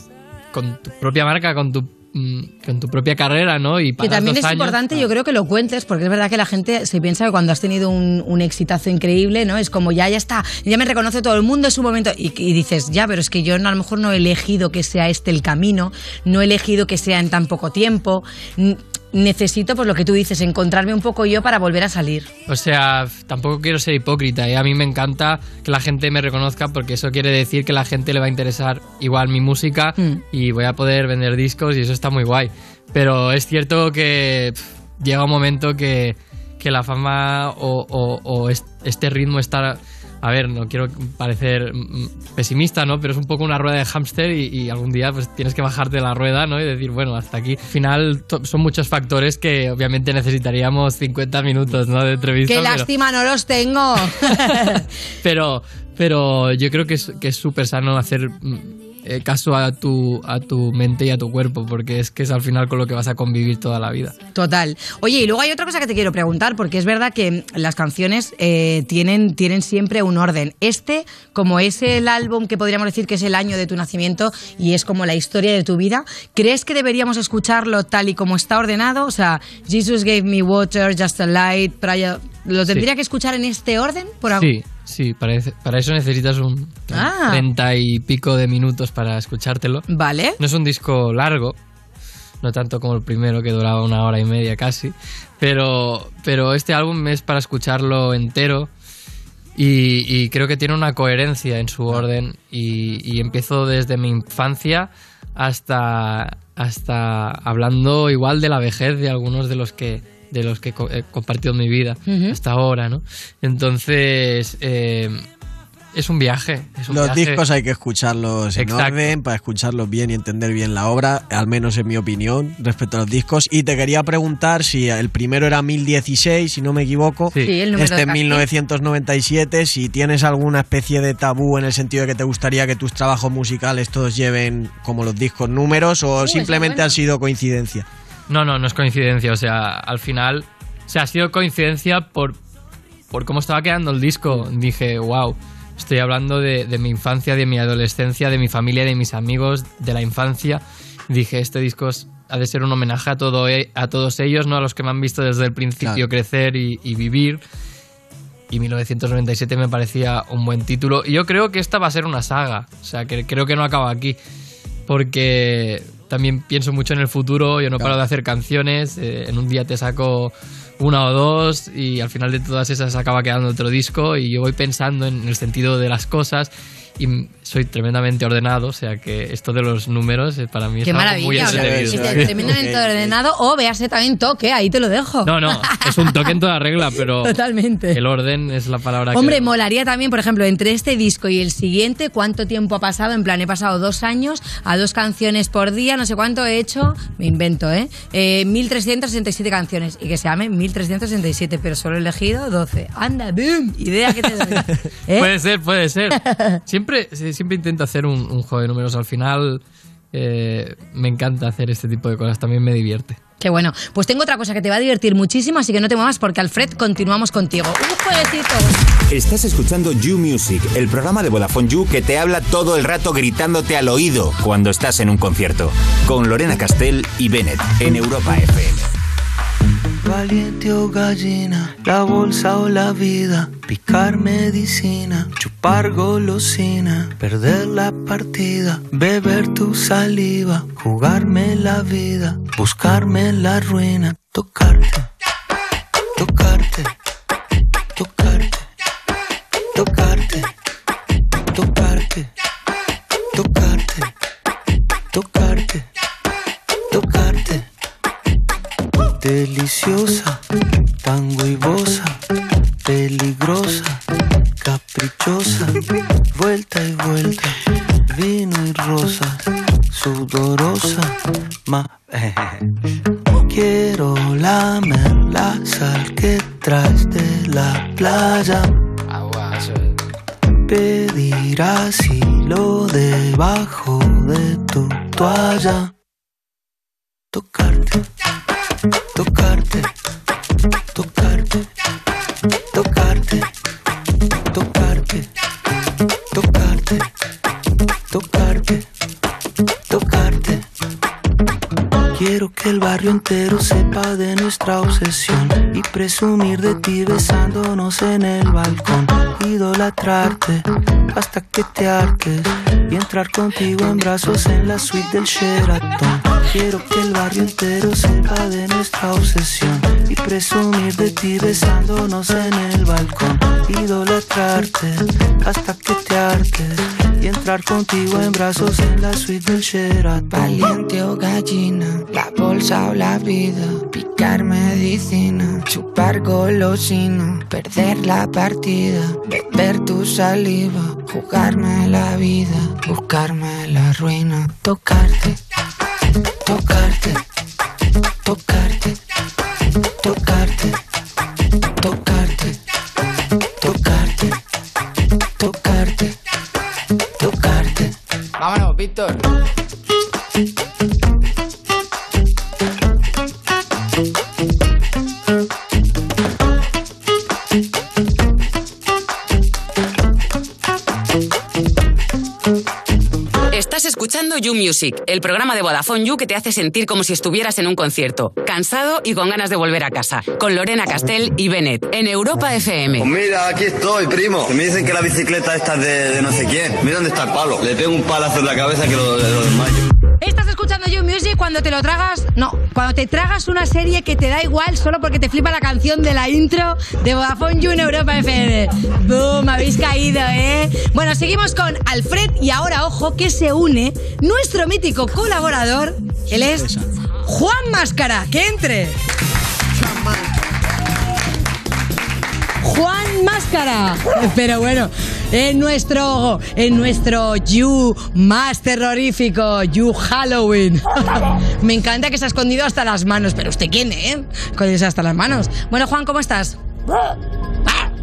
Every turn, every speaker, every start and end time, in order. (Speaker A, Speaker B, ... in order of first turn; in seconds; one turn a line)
Speaker A: 0.5-5.0
Speaker B: 4.0-22.3
Speaker A: 22.5-52.9
Speaker B: 52.5-54.8
Speaker A: 54.2-64.2
Speaker B: 64.3-84.5
Speaker A: 84.4-89.8
Speaker B: 86.9-87.4
Speaker B: 89.9-90.4
Speaker A: 90.4-91.6
Speaker A: 92.4-98.7
Speaker A: 99.6-115.2
Speaker B: 112.1-112.4
Speaker A: 115.9-117.4
Speaker C: 116.9-137.9
Speaker A: 118.6-119.2
Speaker B: 127.4-128.5
Speaker B: 136.2-137.0
Speaker A: 138.3-142.4
Speaker A: 143.1-157.4
Speaker A: 158.5-164.2
Speaker A: 164.9-182.4
Speaker B: 180.8-186.3
Speaker C: 181.3-183.2
Speaker A: 185.2-187.4
Speaker B: 187.2-188.0
Speaker A: 187.9-189.5
Speaker B: 189.1-205.3
Speaker A: 205.2-209.6
Speaker B: 206.2-206.6
Speaker A: 210.1-213.2
Speaker B: 213.4-218.8
Speaker D: 219.1-228.9
Speaker E: 230.0-245.1
Speaker E: 246.2-246.9
Speaker E: 248.0-248.7
Speaker E: 249.8-250.5
Speaker E: 251.5-252.3
Speaker E: 253.3-254.1
Speaker E: 255.1-255.9
Speaker E: 256.9-257.7
Speaker E: 259.2-260.4
Speaker E: 261.0-262.2
Speaker E: 262.9-264.0
Speaker E: 264.6-265.8
Speaker E: 266.3-271.2
Speaker E: 271.7-272.7
Speaker E: 273.3-278.7
Speaker E: 280.5-285.9
Speaker E: 287.3-288.1
Speaker E: 289.1-289.9
Speaker E: 290.9-291.7
Speaker E: 292.7-293.5
Speaker E: 294.5-295.3
Speaker E: 296.3-297.1
Speaker E: 298.1-298.9
Speaker E: 299.9-300.6
Speaker E: 302.1-330.8
Speaker F: 330.4-345.3
Speaker E: 344.6-345.3
Speaker E: 346.5-347.2
Speaker E: 348.3-349.0
Speaker E: 350.0-350.8
Speaker E: 351.8-352.6
Speaker E: 353.6-354.4
Speaker E: 355.4-356.1
Speaker E: 357.2-357.9
Speaker G: 373.5-383.1
Speaker H: 383.0-389.8
Speaker B: 390.2-406.7
Speaker C: 406.3-406.9
Speaker B: 407.2-409.0
Speaker B: 412.6-426.6